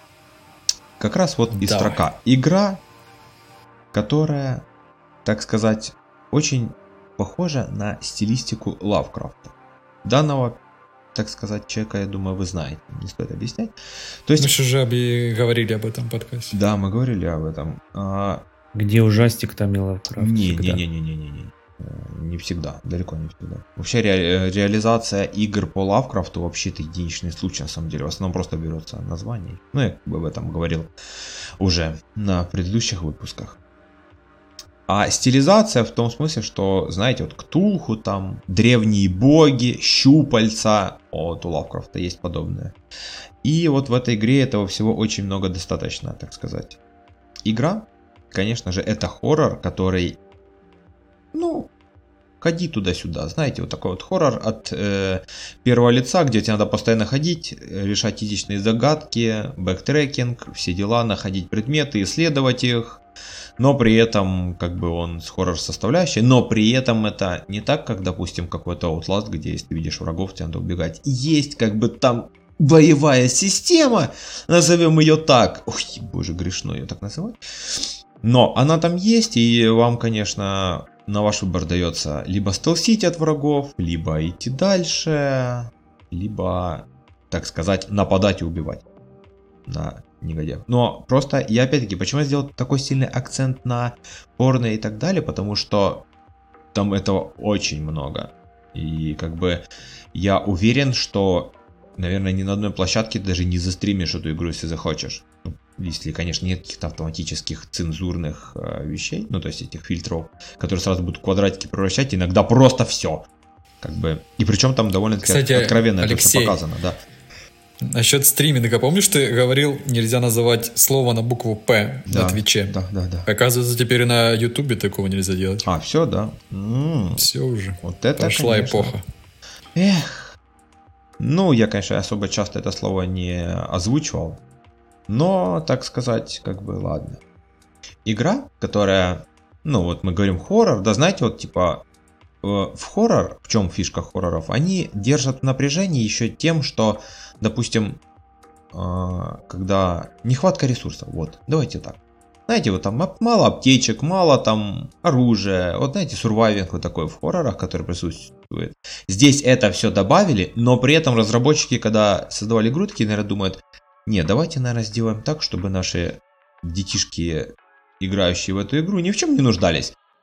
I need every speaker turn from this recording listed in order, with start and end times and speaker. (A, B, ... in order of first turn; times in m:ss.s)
0:01.0-0:02.8 A
0:01.5-0:02.0 B
0:03.9-0:04.6 A
0:05.2-0:09.5 A
0:10.0-0:10.6 A
0:11.1-0:13.7 A
0:14.2-0:14.5 A
0:14.4-0:16.6 B
0:16.5-0:18.4 A
0:18.7-0:20.8 C
0:20.2-0:30.9 A
0:31.6-0:33.6 A
0:34.9-0:42.7 A
0:43.4-0:46.8 A
0:47.4-0:50.2 A
0:51.3-0:51.7 A
0:52.4-1:03.0 A
1:03.6-1:28.8 A
1:29.7-1:36.0 A
1:36.7-1:39.6 A
1:40.1-1:53.2 A
1:53.8-1:57.0 A
1:55.2-1:56.6 B
1:57.8-2:02.7 B
2:02.1-2:03.3 A
2:03.2-2:05.7 B
2:05.6-2:07.2 A
2:07.2-2:09.0 B
2:07.8-2:08.9 A
2:09.7-2:10.4 A
2:11.2-2:14.4 A
2:15.1-2:17.2 A
2:18.0-2:21.8 A
2:22.4-2:28.0 A
2:28.7-2:49.9 A